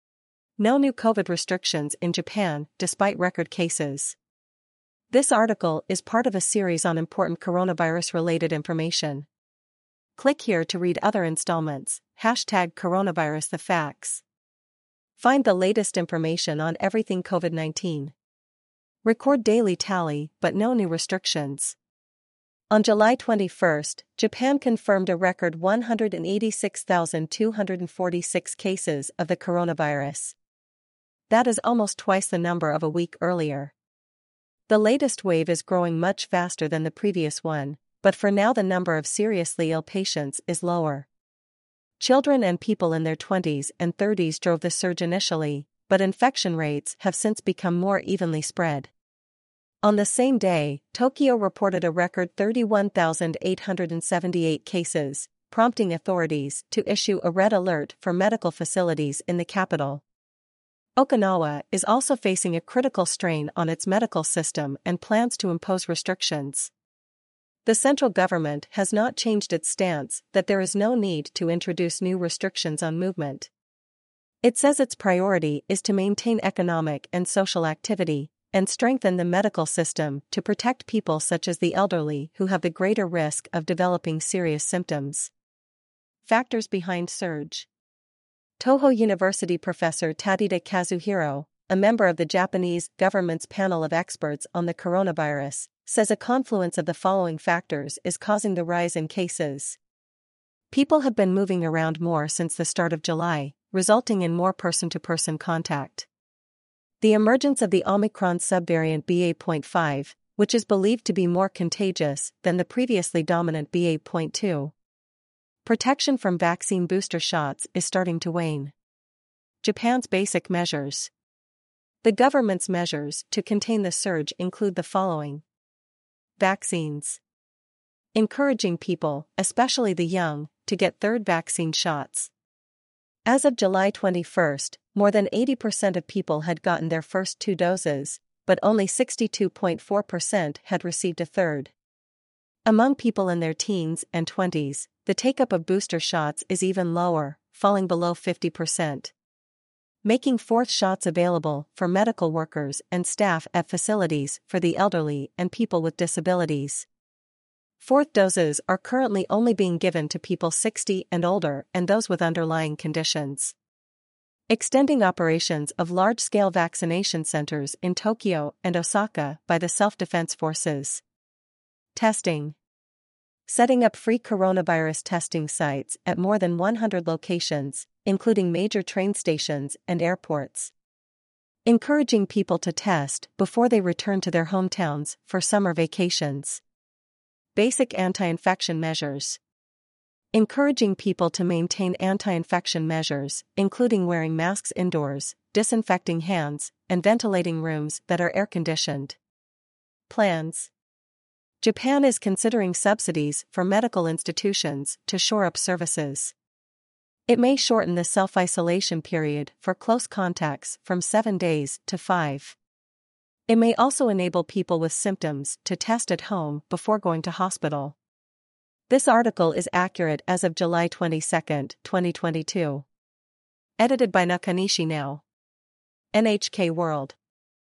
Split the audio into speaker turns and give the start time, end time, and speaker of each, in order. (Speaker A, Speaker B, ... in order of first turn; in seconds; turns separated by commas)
Speaker A: 0.6-4.2, Speaker A: 5.1-9.3, Speaker A: 10.2-14.2, Speaker A: 15.2-18.1, Speaker A: 19.0-21.8, Speaker A: 22.7-30.4, Speaker A: 31.3-33.7, Speaker A: 34.7-41.1, Speaker A: 42.0-48.9, Speaker A: 49.8-60.0, Speaker A: 61.0-66.7, Speaker A: 67.7-73.5, Speaker A: 74.4-85.3, Speaker A: 86.2-87.7, Speaker A: 88.6-99.8, Speaker A: 100.7-106.1, Speaker A: 107.0-114.7, Speaker A: 115.7-118.7, Speaker A: 119.6-121.1, Speaker A: 122.0-125.4, Speaker A: 126.4-127.2, Speaker A: 128.1-132.3, Speaker A: 133.2-141.7, Speaker A: 142.7-149.1, Speaker A: 150.0-156.9, Speaker A: 157.8-163.6, Speaker A: 164.5-171.0, Speaker A: 171.9-172.6, Speaker A: 173.5-180.7, Speaker A: 181.7-186.6, Speaker A: 187.6-189.4, Speaker A: 190.3-199.2, Speaker A: 200.1-200.7, Speaker A: 201.6-206.3, Speaker A: 207.3-212.6, Speaker A: 213.5-218.0, Speaker A: 218.9-222.9, Speaker A: 223.8-225.2, Speaker A: 226.1-227.2